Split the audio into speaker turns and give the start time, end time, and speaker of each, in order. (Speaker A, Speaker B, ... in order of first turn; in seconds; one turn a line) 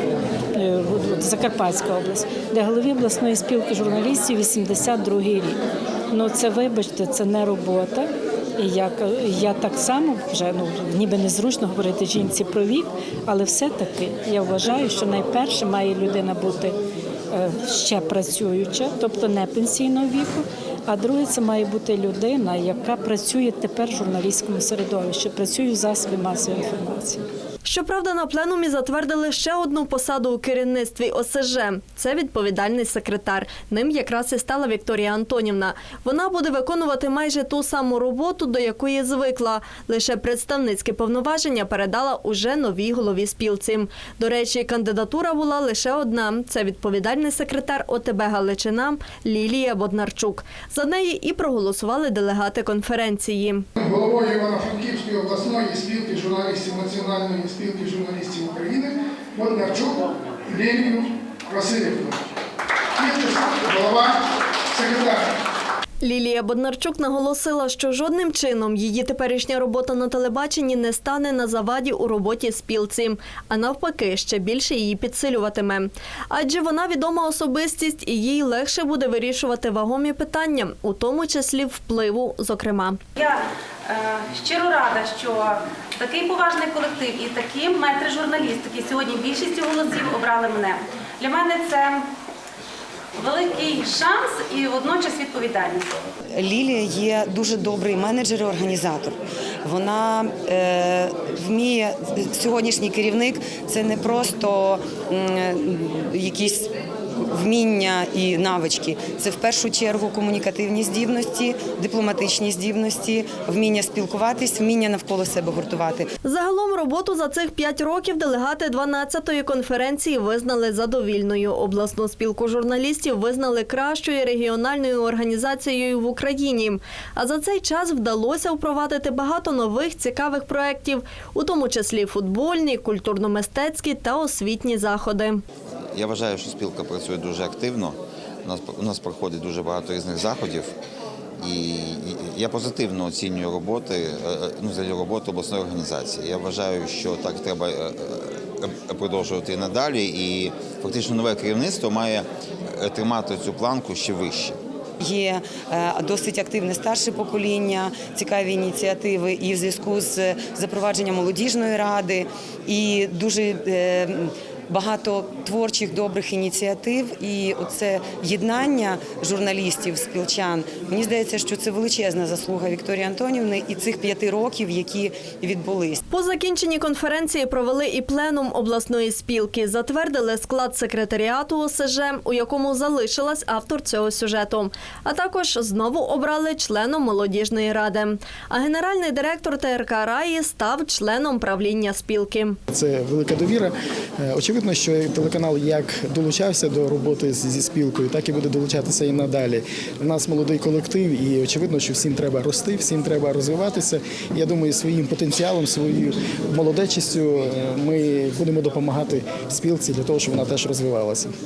Speaker A: 0.5-5.6
Speaker A: 6.1-16.8
Speaker A: 17.3-27.2
Speaker B: 27.6-53.6
Speaker C: 53.8-62.2
Speaker C: 63.0-65.3
Speaker B: 66.0-83.0
Speaker D: 83.2-92.0
Speaker D: 93.2-95.9
Speaker E: 96.3-116.1
Speaker B: 116.2-135.4
Speaker F: 135.9-140.7
Speaker F: 141.4-154.6
Speaker E: 155.0-176.0
Speaker B: 176.1-192.6
Speaker G: 192.7-211.3